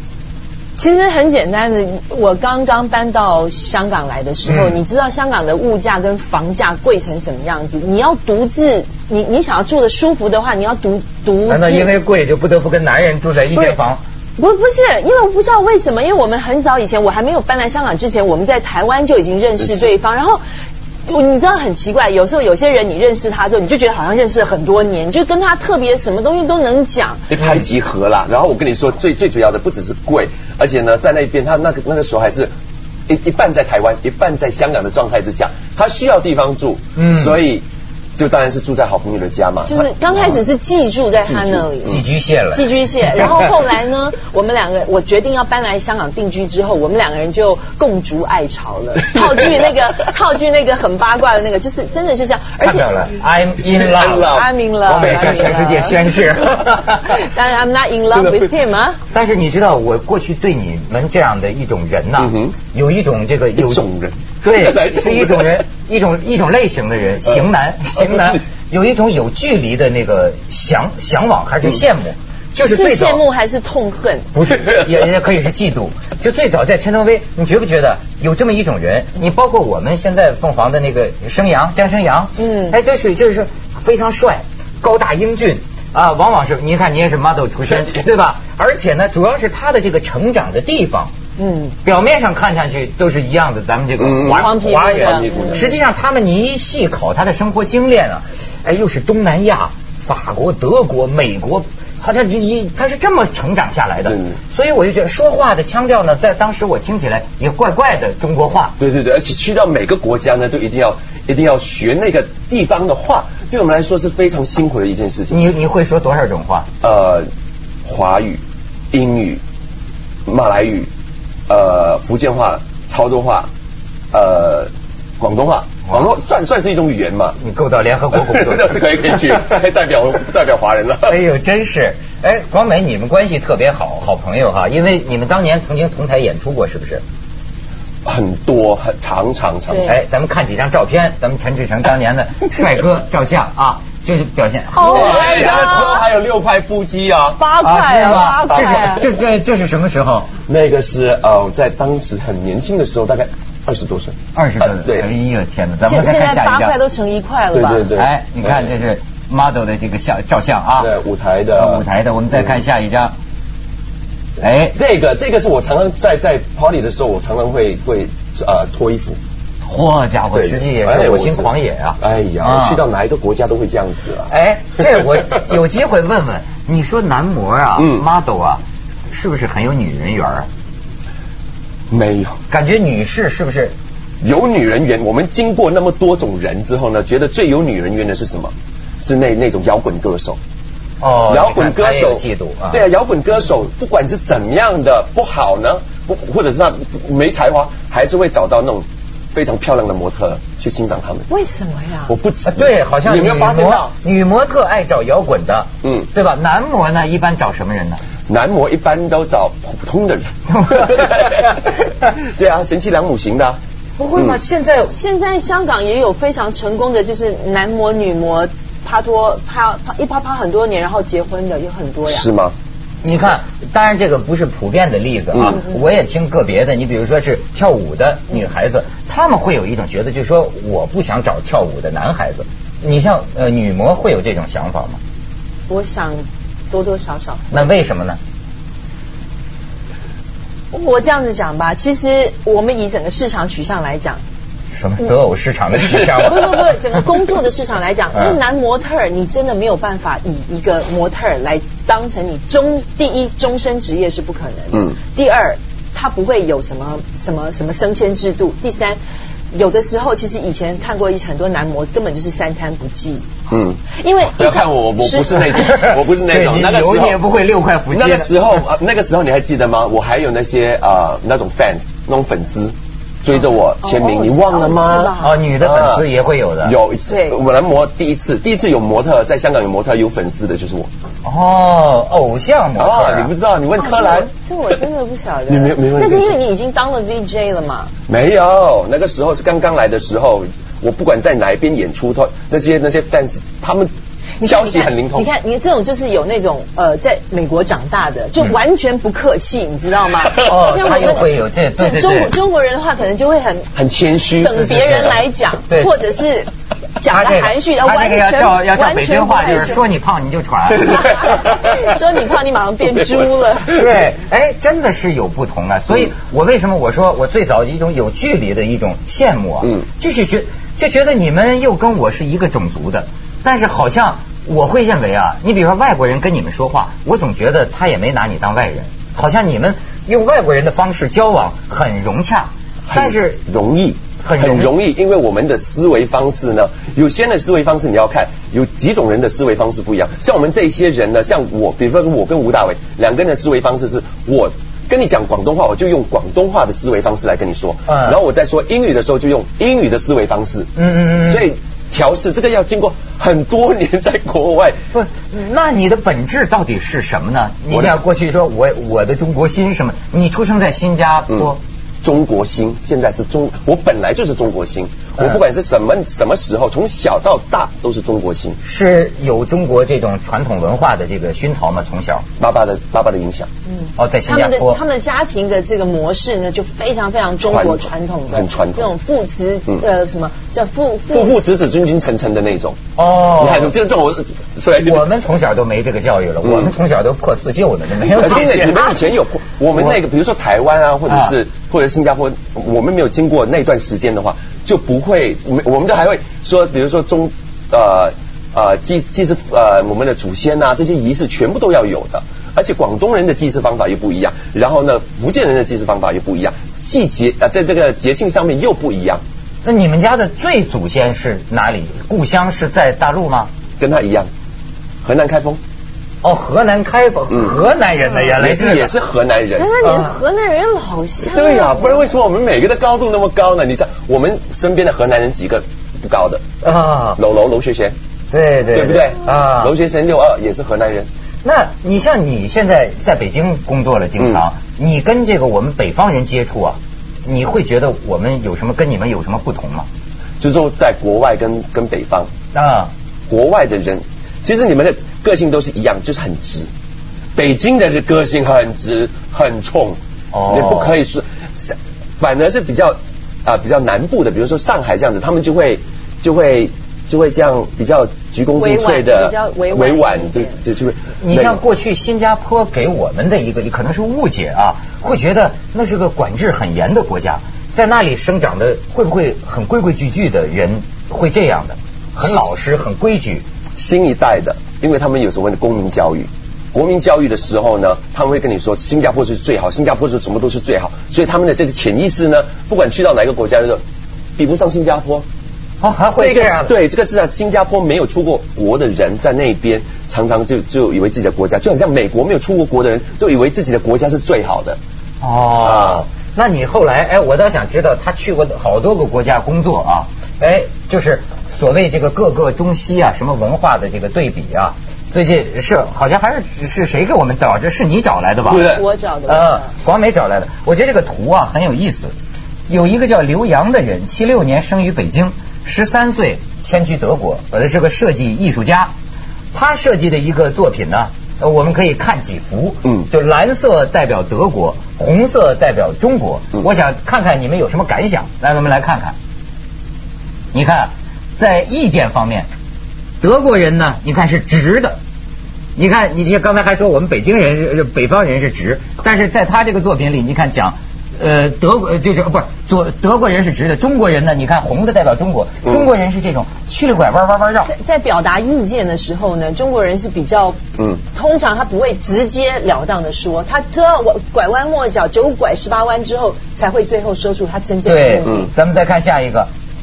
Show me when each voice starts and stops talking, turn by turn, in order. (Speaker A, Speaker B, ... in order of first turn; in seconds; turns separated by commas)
Speaker A: 0.8-11.9, Speaker B: 4.5-4.8, Speaker B: 11.5-14.0, Speaker A: 14.4-20.4, Speaker A: 21.1-27.3, Speaker C: 27.3-32.5, Speaker C: 33.1-37.6, Speaker B: 37.0-37.4, Speaker C: 38.2-39.9, Speaker A: 39.7-53.1, Speaker C: 41.3-42.0, Speaker B: 41.8-43.4, Speaker C: 49.0-49.7, Speaker B: 52.6-57.1, Speaker C: 53.7-55.9, Speaker A: 54.2-59.0, Speaker B: 59.1-63.9, Speaker C: 62.2-62.5, Speaker C: 63.6-65.6, Speaker B: 64.4-73.2, Speaker C: 67.3-68.4, Speaker A: 72.6-74.3, Speaker B: 74.3-91.1, Speaker A: 82.4-82.8, Speaker A: 91.4-91.8, Speaker B: 91.8-108.8, Speaker C: 94.0-95.7, Speaker A: 94.3-95.7, Speaker C: 104.0-104.4, Speaker C: 108.8-115.4, Speaker B: 115.3-116.7, Speaker C: 116.8-117.3, Speaker C: 117.8-118.4, Speaker C: 118.9-119.4, Speaker C: 120.3-120.9, Speaker C: 121.5-123.5, Speaker C: 124.1-127.4, Speaker B: 127.4-128.8, Speaker C: 128.1-131.2, Speaker B: 131.1-137.0, Speaker C: 138.1-140.0, Speaker B: 139.8-145.9, Speaker A: 144.7-146.1, Speaker C: 144.9-147.4, Speaker A: 147.4-149.1, Speaker B: 147.6-150.3, Speaker C: 148.4-149.0, Speaker C: 150.5-155.1, Speaker B: 154.3-156.8, Speaker A: 155.8-157.9, Speaker C: 157.5-158.7, Speaker B: 157.9-160.9, Speaker C: 160.8-162.6, Speaker B: 161.6-163.1, Speaker B: 164.4-164.8, Speaker C: 164.7-169.2, Speaker B: 169.6-172.8, Speaker C: 170.3-174.3, Speaker B: 174.3-180.5, Speaker C: 177.8-178.1, Speaker C: 181.9-182.4, Speaker B: 182.5-183.7, Speaker C: 184.2-190.4, Speaker B: 191.0-192.8, Speaker C: 191.3-201.3, Speaker A: 201.3-202.1, Speaker C: 202.1-203.9, Speaker B: 202.5-208.0, Speaker C: 205.8-206.1, Speaker C: 208.3-213.6, Speaker B: 210.5-211.2, Speaker B: 214.0-214.9, Speaker A: 214.9-222.3, Speaker C: 222.1-222.6, Speaker B: 223.0-235.0, Speaker C: 225.3-225.6, Speaker A: 235.7-237.4, Speaker B: 237.5-238.2, Speaker A: 240.7-244.2, Speaker B: 244.7-246.5, Speaker A: 246.1-259.0, Speaker A: 259.5-263.3, Speaker C: 263.5-267.2, Speaker A: 263.9-265.8, Speaker B: 265.6-268.4, Speaker C: 267.9-276.1, Speaker A: 273.7-275.4, Speaker B: 275.2-276.8, Speaker C: 276.6-280.9, Speaker A: 277.1-277.4, Speaker B: 281.2-283.3, Speaker C: 282.8-284.3, Speaker A: 283.8-287.9, Speaker C: 285.5-286.4, Speaker C: 288.1-293.9, Speaker A: 294.4-303.7, Speaker C: 294.4-295.3, Speaker B: 300.4-302.4, Speaker C: 303.8-304.6, Speaker A: 304.3-309.8, Speaker B: 304.5-306.0, Speaker B: 307.1-311.4, Speaker A: 310.8-313.8, Speaker B: 313.6-333.4, Speaker C: 332.9-354.8, Speaker B: 334.2-334.7, Speaker B: 347.9-348.2, Speaker B: 350.8-351.5, Speaker B: 354.9-361.6, Speaker C: 357.7-358.0, Speaker C: 362.0-368.6, Speaker B: 368.6-372.2, Speaker C: 372.4-373.5, Speaker A: 373.7-381.4, Speaker B: 374.0-374.8, Speaker C: 377.4-378.9, Speaker C: 381.1-382.8, Speaker B: 383.0-383.7, Speaker C: 383.4-385.1, Speaker B: 384.8-389.0, Speaker C: 386.4-386.7, Speaker C: 388.1-409.2, Speaker B: 409.6-413.5, Speaker C: 413.8-414.3, Speaker C: 415.0-415.6, Speaker B: 416.2-418.9, Speaker C: 417.3-417.6, Speaker C: 418.4-419.7, Speaker A: 419.6-422.0, Speaker B: 419.8-420.2, Speaker C: 421.2-426.4, Speaker B: 426.6-427.2, Speaker C: 427.2-427.9, Speaker B: 428.3-429.7, Speaker C: 428.7-431.1, Speaker B: 431.4-439.9, Speaker C: 434.2-434.4, Speaker C: 440.4-442.3, Speaker B: 442.5-442.9, Speaker C: 443.3-446.7, Speaker C: 447.4-461.6, Speaker B: 450.3-451.0, Speaker A: 458.6-460.6, Speaker B: 461.2-473.4, Speaker C: 473.8-483.8, Speaker C: 484.4-485.2, Speaker B: 485.8-486.7, Speaker C: 486.2-494.8, Speaker B: 495.2-508.7, Speaker C: 495.6-496.1, Speaker C: 508.5-508.8, Speaker A: 508.6-509.7, Speaker B: 509.3-512.1, Speaker B: 512.7-518.9, Speaker B: 519.5-529.2, Speaker B: 530.5-532.5, Speaker B: 533.2-535.0, Speaker B: 535.8-547.7, Speaker A: 547.7-550.6, Speaker A: 551.1-558.5, Speaker B: 557.9-559.5